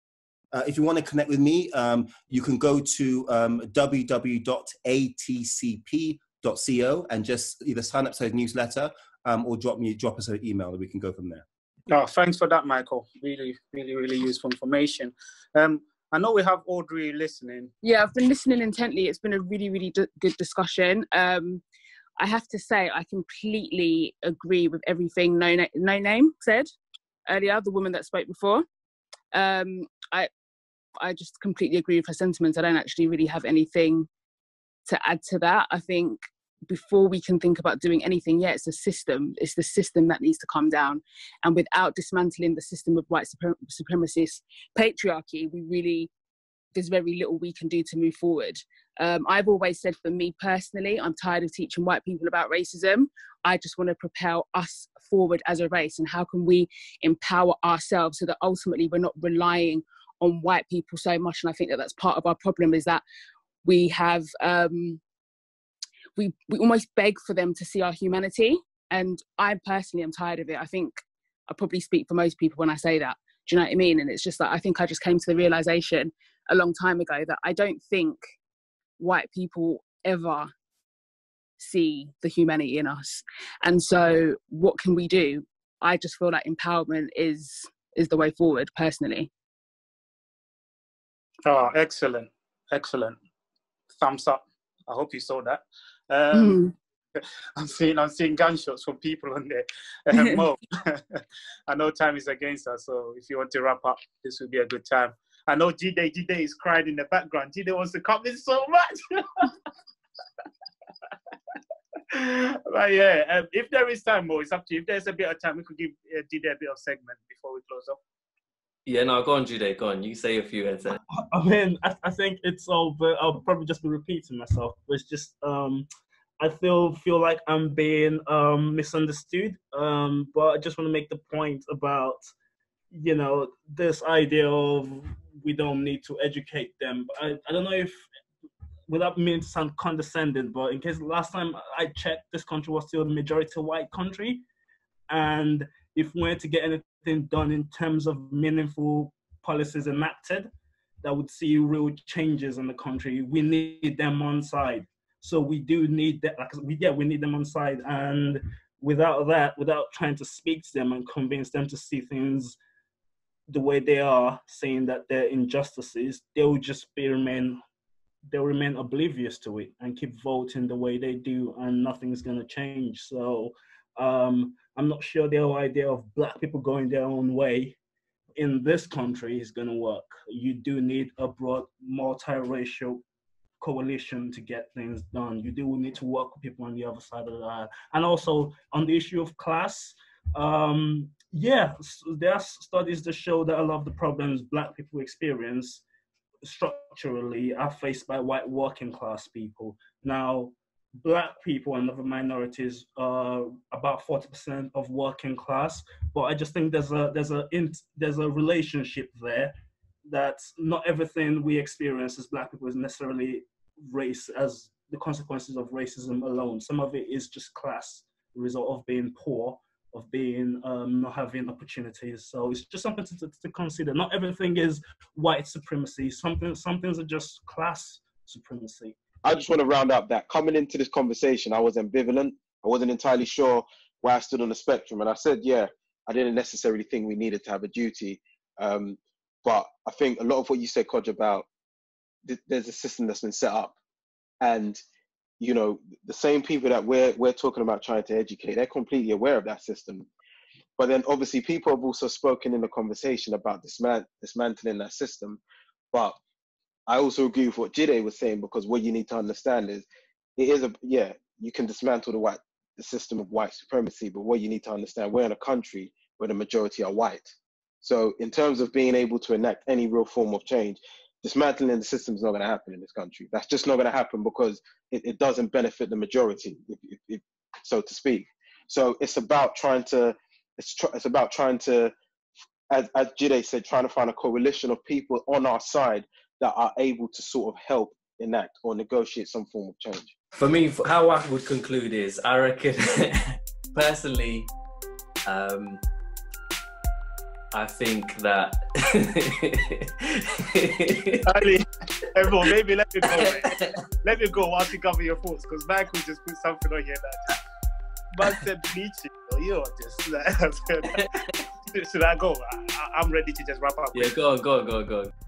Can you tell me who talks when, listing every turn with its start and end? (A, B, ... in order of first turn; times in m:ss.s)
0:00.5-0:11.4 A
0:11.9-0:17.7 B
0:17.8-0:21.6 C
0:22.2-0:26.7 C
0:27.3-0:28.7 C
0:29.3-0:30.3 C
0:31.0-0:34.1 C
0:34.9-0:46.1 C
0:46.7-1:03.0 C
1:03.6-1:05.0 C
1:06.2-1:18.2 C
1:19.0-1:20.5 C
1:21.6-1:29.3 C
1:31.4-1:33.2 B
1:33.9-1:36.6 B
1:36.3-1:36.7 C
1:37.2-1:49.5 B
1:40.1-1:40.4 C
1:52.1-1:58.0 B
1:58.9-2:01.0 D
2:01.1-2:05.9 E
2:06.4-2:12.2 E
2:12.9-2:18.0 E
2:18.9-2:24.4 E
2:25.1-2:30.5 E
2:31.0-2:42.6 E
2:43.5-2:47.6 E
2:48.3-2:57.8 E
2:58.4-3:03.0 E
3:03.6-3:15.8 E
3:16.4-3:29.5 E
3:30.1-3:49.0 E
3:49.2-4:01.5 F
4:02.2-4:03.8 F
4:04.4-4:04.8 F
4:05.4-4:10.1 F
4:10.8-4:15.4 F
4:15.9-4:16.2 F
4:16.9-4:19.9 F
4:20.4-4:41.9 F
4:42.7-4:50.1 F
4:50.4-4:54.5 D
4:55.2-4:55.8 D
4:57.5-5:01.3 D
5:01.2-5:07.4 B
5:03.0-5:03.8 D
5:08.2-5:11.1 B
5:10.9-5:11.3 D
5:11.7-5:14.1 B
5:13.9-5:15.1 D